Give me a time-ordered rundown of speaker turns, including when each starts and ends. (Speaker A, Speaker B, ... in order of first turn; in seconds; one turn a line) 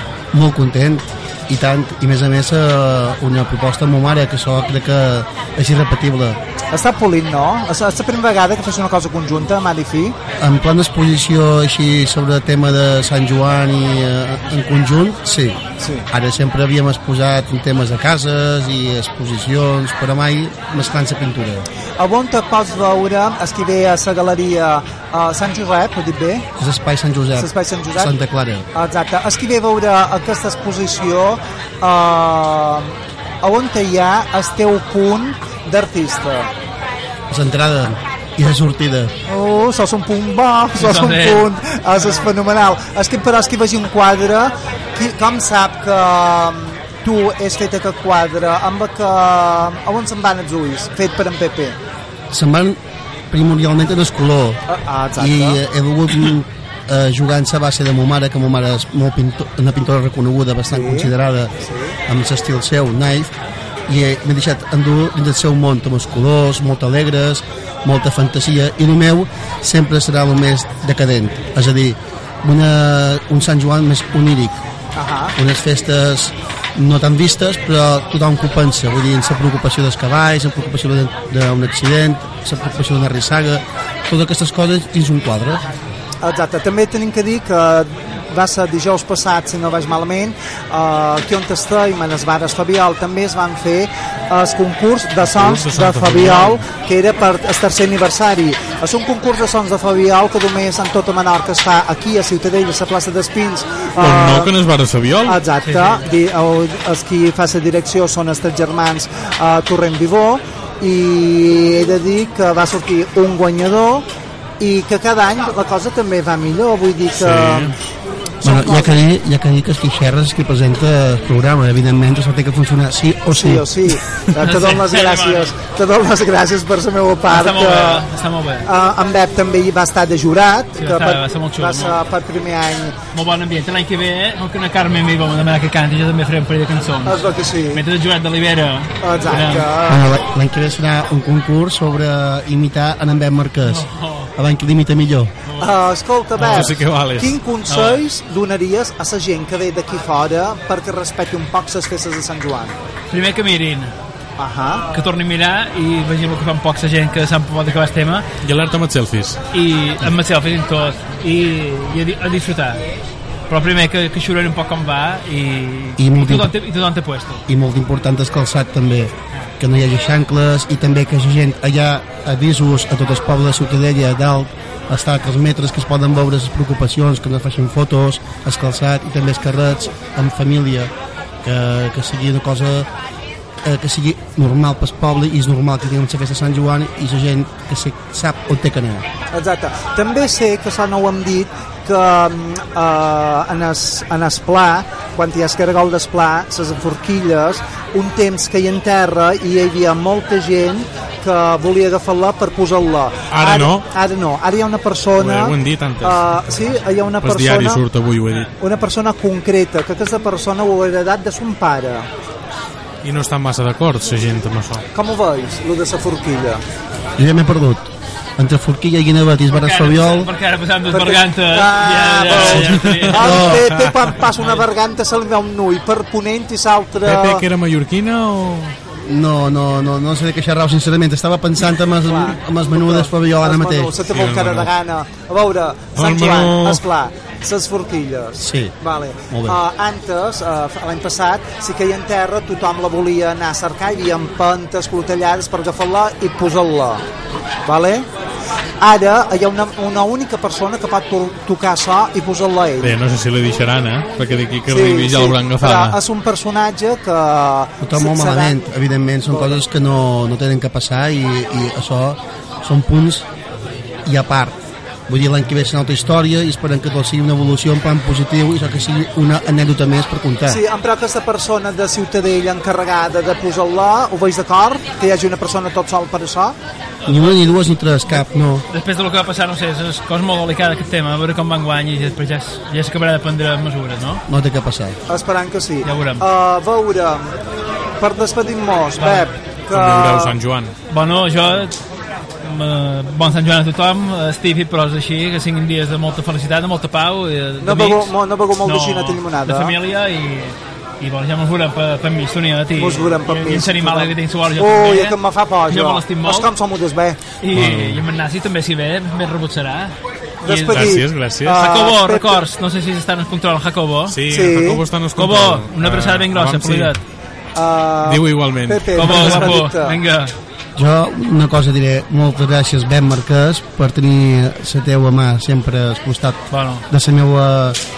Speaker A: 0.3-6.4
Speaker B: 6.7-10.2
Speaker A: 10.4-21.7
Speaker B: 15.8-16.1
Speaker B: 22.0-26.5
Speaker A: 26.6-28.7
Speaker B: 27.4-28.1
Speaker B: 28.7-36.5
Speaker A: 37.3-39.1
Speaker B: 39.3-51.8
Speaker C: 40.8-41.5
Speaker A: 52.3-52.8
Speaker A: 53.3-54.6
Speaker B: 54.7-55.6
Speaker A: 55.2-61.5
Speaker B: 60.7-62.0
Speaker A: 62.1-63.3
Speaker A: 63.9-74.6
Speaker B: 75.0-75.4
Speaker A: 75.4-85.6
Speaker B: 86.2-104.5
Speaker D: 95.2-96.6
Speaker D: 104.0-105.4
Speaker B: 105.3-114.1
Speaker C: 105.6-106.1
Speaker B: 114.6-117.8
Speaker D: 117.1-117.8
Speaker A: 118.4-123.7
Speaker B: 118.4-119.0
Speaker B: 123.3-128.1
Speaker C: 124.4-125.6
Speaker C: 127.3-128.7
Speaker B: 128.7-133.0
Speaker C: 130.8-132.0
Speaker C: 133.1-139.7
Speaker B: 137.1-137.8
Speaker B: 139.0-140.1
Speaker A: 139.9-145.3
Speaker C: 143.6-144.3
Speaker C: 145.5-145.7
Speaker B: 145.6-152.8
Speaker D: 146.4-147.4
Speaker C: 147.7-148.0
Speaker C: 153.1-153.9
Speaker B: 154.4-154.9
Speaker C: 154.9-158.3
Speaker D: 158.4-159.4
Speaker C: 159.5-162.8
Speaker C: 163.5-167.4
Speaker A: 166.0-166.5
Speaker A: 167.5-180.9
Speaker A: 181.4-182.9
Speaker A: 183.6-189.1
Speaker B: 189.3-207.8
Speaker D: 203.3-203.9
Speaker D: 205.2-206.2
Speaker D: 207.2-208.5
Speaker B: 208.6-212.1
Speaker D: 213.0-214.8
Speaker B: 214.9-216.6
Speaker A: 217.2-220.3
Speaker C: 219.5-223.5
Speaker B: 220.9-227.5
Speaker D: 222.3-224.1
Speaker A: 223.2-223.7
Speaker D: 227.0-228.8
Speaker A: 229.0-233.9
Speaker B: 232.0-247.0
Speaker D: 234.1-234.7
Speaker D: 235.9-236.8
Speaker A: 238.4-238.8
Speaker A: 239.3-239.6
Speaker B: 247.7-248.1
Speaker B: 248.8-253.0
Speaker D: 252.8-256.0
Speaker B: 254.7-258.6
Speaker A: 257.8-263.2
Speaker B: 259.3-259.6
Speaker A: 264.1-264.6
Speaker A: 265.1-270.6
Speaker B: 270.5-276.6
Speaker C: 277.0-277.4
Speaker A: 277.1-278.6
Speaker C: 278.7-284.2
Speaker A: 284.3-285.0
Speaker B: 285.1-287.3
Speaker C: 285.8-286.3
Speaker B: 288.0-290.4
Speaker C: 289.0-289.3
Speaker D: 289.7-290.7
Speaker C: 290.9-291.8
Speaker C: 292.4-298.1
Speaker B: 297.6-299.8
Speaker C: 298.6-306.5
Speaker B: 302.8-307.2
Speaker C: 307.4-310.9
Speaker D: 307.5-308.0
Speaker B: 310.4-312.4
Speaker D: 310.7-311.6
Speaker C: 311.6-314.2
Speaker D: 314.1-316.9
Speaker B: 314.3-314.8
Speaker C: 315.2-317.0
Speaker B: 317.6-320.0
Speaker D: 318.0-319.6
Speaker C: 318.9-320.3
Speaker A: 320.8-327.8
Speaker C: 326.5-326.9